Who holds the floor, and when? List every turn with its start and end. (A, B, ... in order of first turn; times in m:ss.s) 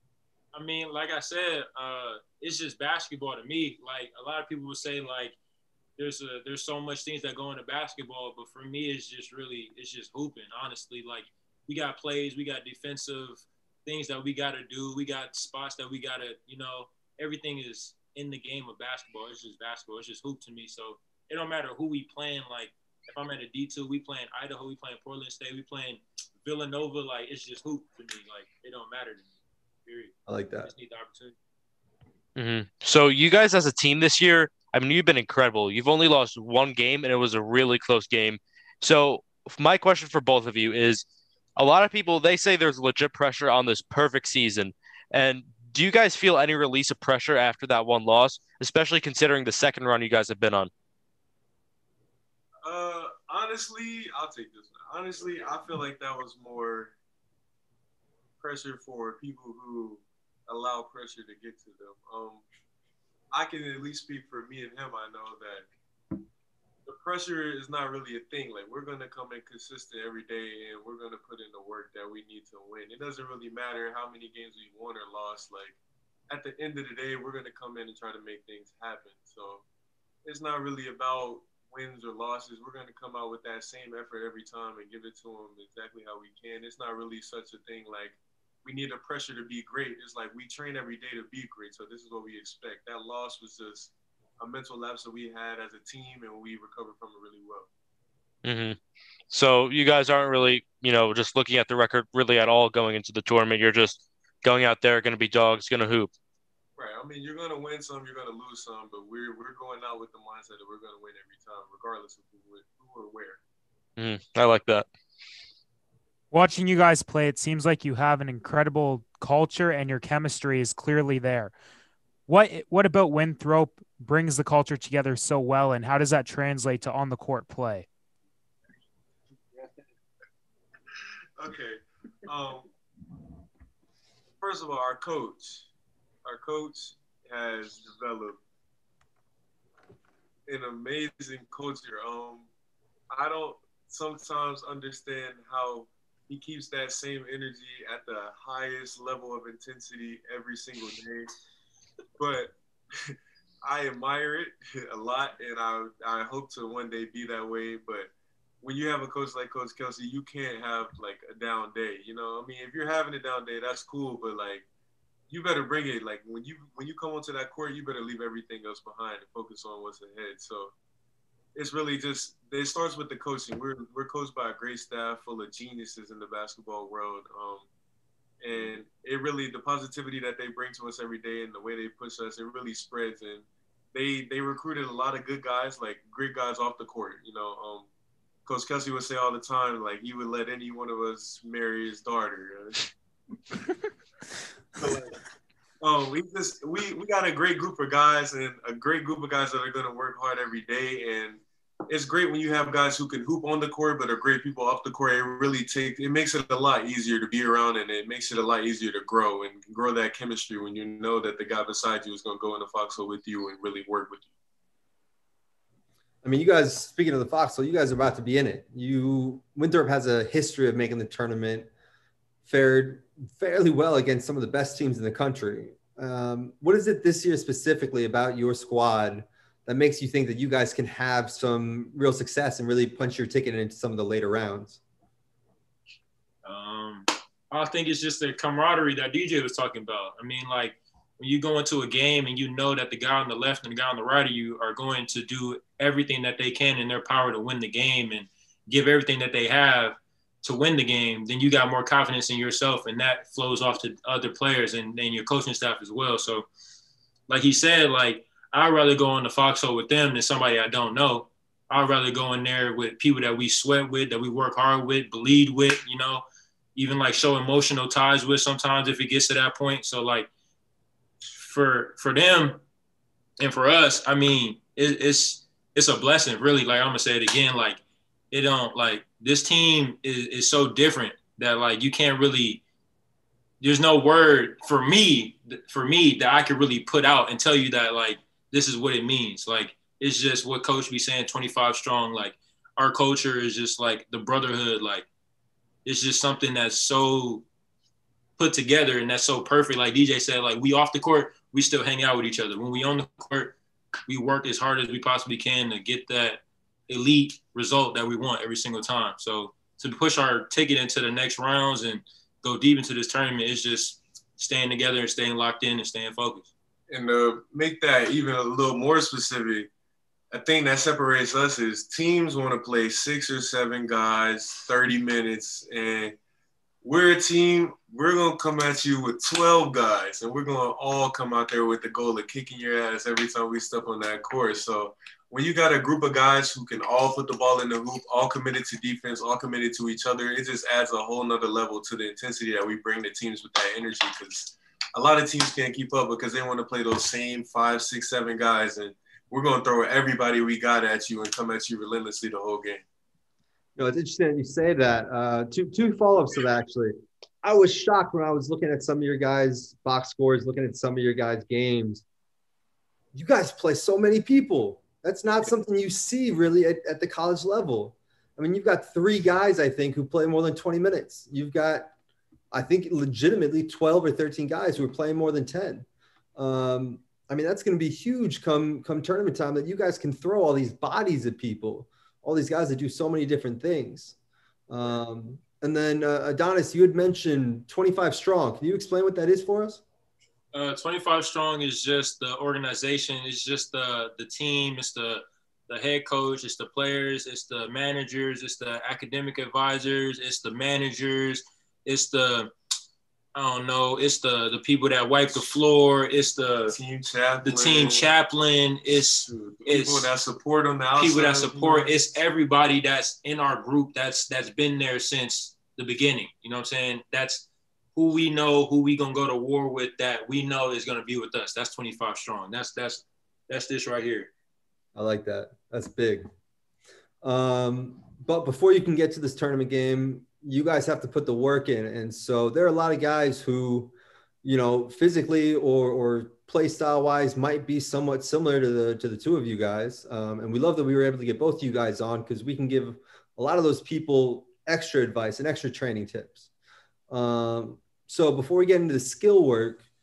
0:00.5-0:05.4 A
0:06.0-0:31.4 A
0:30.3-0:30.7 B
0:32.4-0:41.0 C
0:41.6-0:50.7 C
0:52.6-0:56.9 D
0:58.4-1:02.5 D
1:03.3-1:05.7 D
1:06.9-1:19.6 D
1:20.2-1:37.7 D
1:38.4-1:38.8 C
1:39.3-1:46.1 C
1:46.8-1:53.4 D
1:54.0-1:54.9 C
1:56.3-2:01.5 E
2:02.3-2:07.9 E
2:11.4-2:12.7 D
2:14.4-2:15.7 D
2:16.2-2:18.4 D
2:20.5-2:22.5 D
2:23.1-2:31.3 D
2:32.2-2:38.1 D
2:38.6-2:44.7 D
2:45.3-2:50.7 D
2:51.6-2:57.7 D
2:58.4-3:07.9 D
3:08.5-3:12.8 D
3:14.8-3:15.2 D
3:15.8-3:34.3 D
3:36.2-3:41.7 B
3:42.5-3:54.8 B
3:56.4-4:16.5 A
4:17.3-4:30.3 A
4:31.4-4:32.6 A
4:33.4-4:42.6 A
4:43.6-4:55.1 A
4:55.8-4:57.5 A
4:58.4-5:03.6 A
5:04.1-5:16.5 A
5:16.9-5:19.7 D
5:20.3-5:26.2 D
5:26.8-5:52.8 D
5:53.8-6:02.0 B
6:03.1-6:11.9 B
6:12.5-6:24.2 B
6:24.7-6:29.8 B
6:30.5-6:42.5 A
6:43.4-6:46.8 A
6:46.7-6:48.1 D
6:47.4-6:50.1 A
6:49.3-6:51.9 D
6:51.0-7:04.3 A
7:05.0-7:06.3 B
7:07.2-7:26.5 B
7:27.1-7:29.8 B